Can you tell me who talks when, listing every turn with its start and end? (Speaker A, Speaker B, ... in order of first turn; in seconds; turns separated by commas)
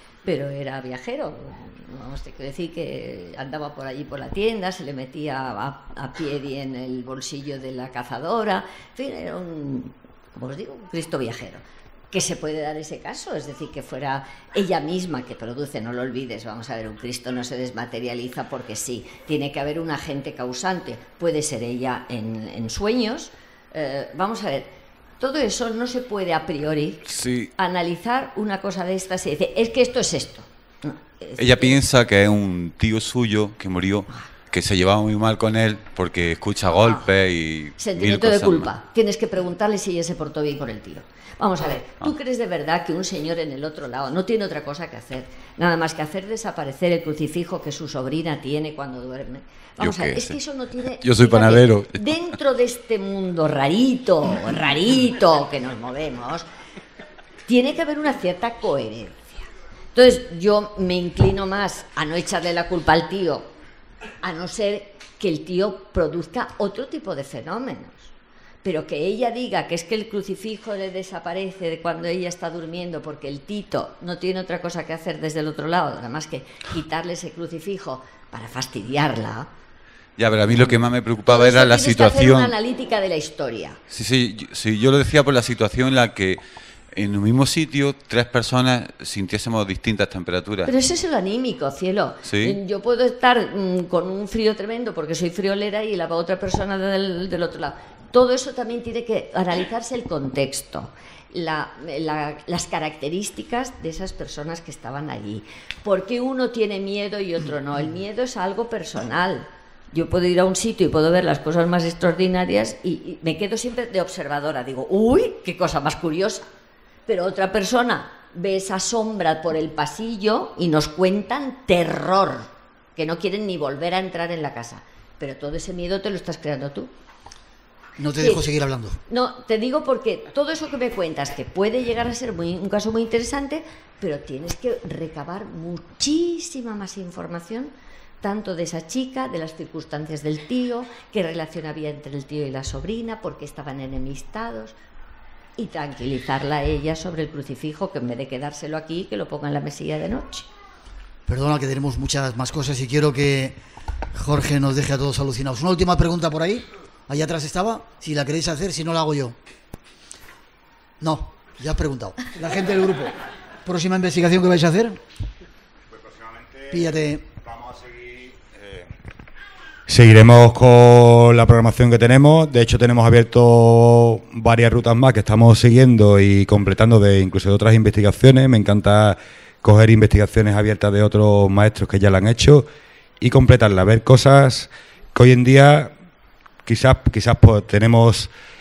Speaker A: 0.2-31.8, Speaker B: 27.0-27.5, Speaker B: 31.4-38.7, Speaker A: 36.8-37.0, Speaker A: 37.8-56.5, Speaker B: 49.8-50.4, Speaker B: 51.0-52.2, Speaker A: 57.5-59.3, Speaker A: 59.9-63.5, Speaker A: 64.2-79.5, Speaker B: 80.2-82.5, Speaker A: 81.3-83.8, Speaker B: 83.9-90.7, Speaker A: 90.6-116.5, Speaker B: 92.2-92.6, Speaker A: 117.0-126.9, Speaker C: 128.0-129.0, Speaker A: 128.2-128.5, Speaker A: 129.1-144.8, Speaker A: 145.6-150.5, Speaker C: 151.3-153.6, Speaker C: 154.1-159.4, Speaker C: 161.0-165.0, Speaker C: 166.7-167.3, Speaker D: 169.9-182.7, Speaker D: 183.2-185.9, Speaker D: 186.7-188.3